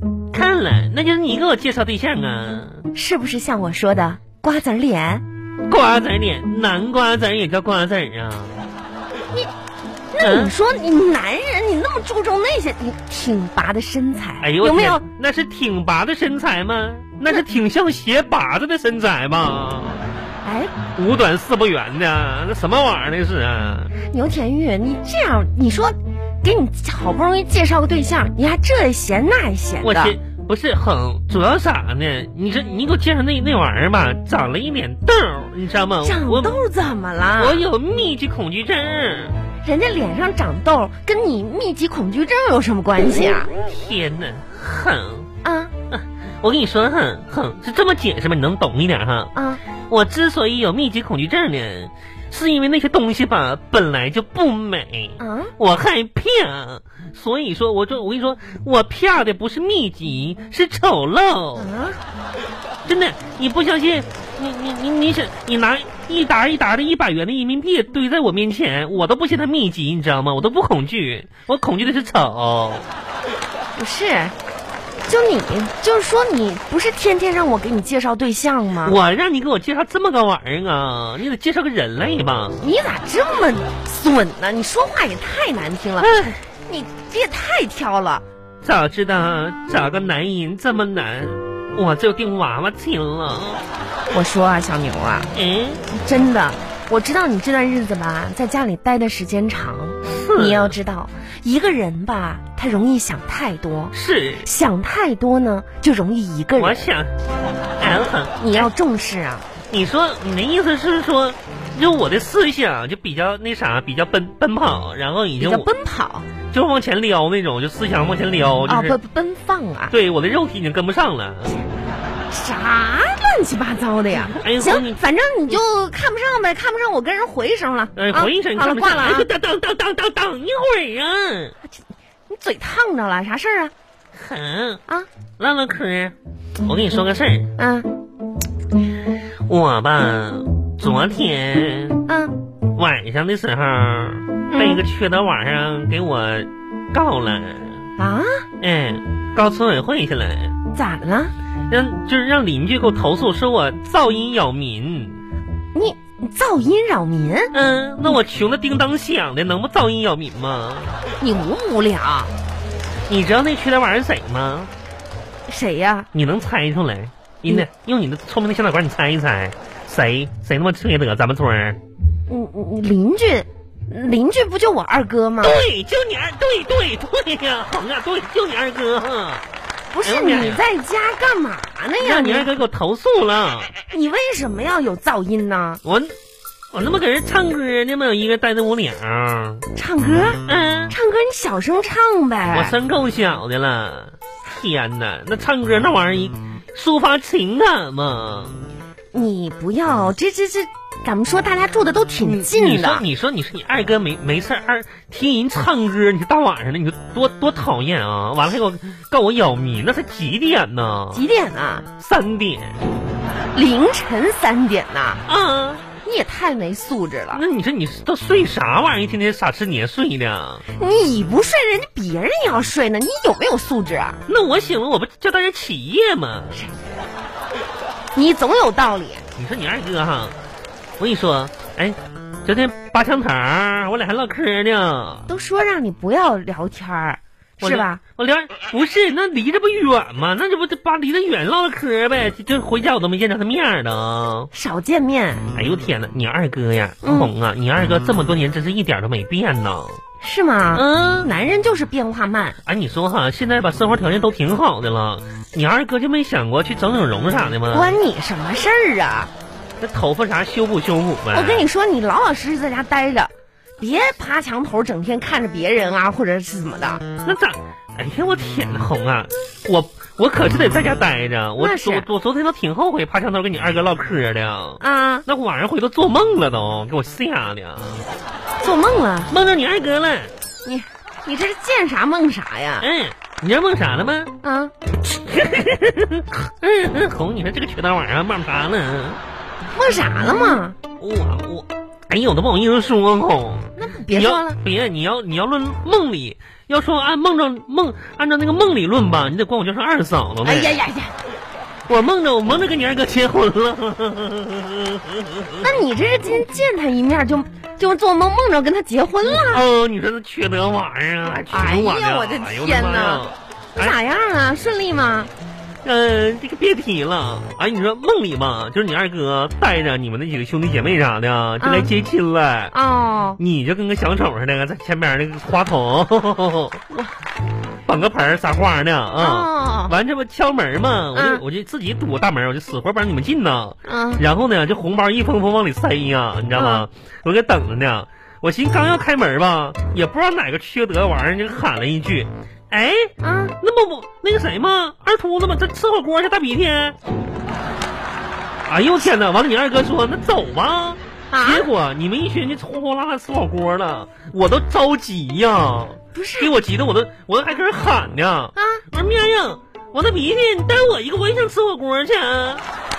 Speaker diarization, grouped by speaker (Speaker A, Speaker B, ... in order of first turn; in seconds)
Speaker A: 0.3-2.9, 5.7-8.6, 10.2-10.5, 14.4-20.0, 20.9-23.9, 29.8-36.6, 37.4-39.4, 43.7-45.3, 45.9-49.3, 49.9-61.7, 62.9-72.8, 78.8-82.7, 86.0-86.4, 88.6-93.6, 95.3-95.8, 100.0-100.8, 103.9-104.5, 106.6-107.1, 107.8-108.7, 109.7-115.7, 116.5-119.0, 119.9-121.6, 124.1-125.0, 127.9-131.6, 134.2-134.8, 135.4-137.5, 139.4-142.0, 142.7-147.8, 148.6-150.5, 151.7-155.2, 157.5-161.0, 163.1-164.7, 166.1-171.8, 175.4-179.4, 180.0-180.6, 182.0-183.7, 185.8-186.1, 186.7-189.7, 190.4-190.9, 192.5-198.6, 202.2-211.2, 212.0-212.8, 215.2-215.8, 217.3-220.6, 224.2-226.6, 229.3-230.3, 231.0-235.3, 237.6-244.5, 245.5-250.0, 250.7-251.3, 252.6-257.9, 259.8-261.6, 267.2-278.0, 279.3-280.3, 282.8-284.3, 285.0-289.2, 291.0-300.8, 301.9-305.8, 309.2-313.9, 315.8-322.7, 323.4-326.8, 327.9-346.9, 348.6-362.6
Speaker B: 2.9-5.2, 10.1-15.0, 20.4-20.7, 24.0-30.1, 36.0-37.6, 39.6-43.5, 45.4-45.7, 49.3-49.6, 55.2-55.5, 61.5-62.0, 73.8-74.3, 75.1-79.0, 82.6-86.1, 86.7-88.2, 94.1-95.3, 95.9-106.8, 108.4-109.5, 115.4-116.3, 118.7-119.9, 122.3-129.3, 131.6-133.7, 137.6-137.9, 142.1-142.3, 144.5-144.8, 148.0-148.4, 150.7-151.3, 155.7-157.5, 161.2-162.3, 165.5-166.1, 172.3-175.6, 179.9-182.5, 183.8-185.8, 189.7-192.7, 199.1-203.0, 211.1-211.8, 213.5-215.2, 216.0-217.4, 220.7-224.2, 228.1-229.2, 235.3-238.0, 244.5-245.5, 247.0-247.3, 250.2-252.6, 257.7-259.3, 261.3-267.0, 271.6-272.1, 274.8-275.2, 278.6-279.3, 280.6-282.9, 284.4-284.7, 289.7-290.8, 293.8-294.6, 300.4-301.1, 305.6-309.6, 311.3-313.2, 313.8-315.3, 321.6-321.9, 322.7-323.4, 329.2-329.9, 331.1-331.4, 333.8-334.2, 336.5-336.8, 343.2-343.5, 351.3-351.7, 356.1-356.5, 358.6-358.8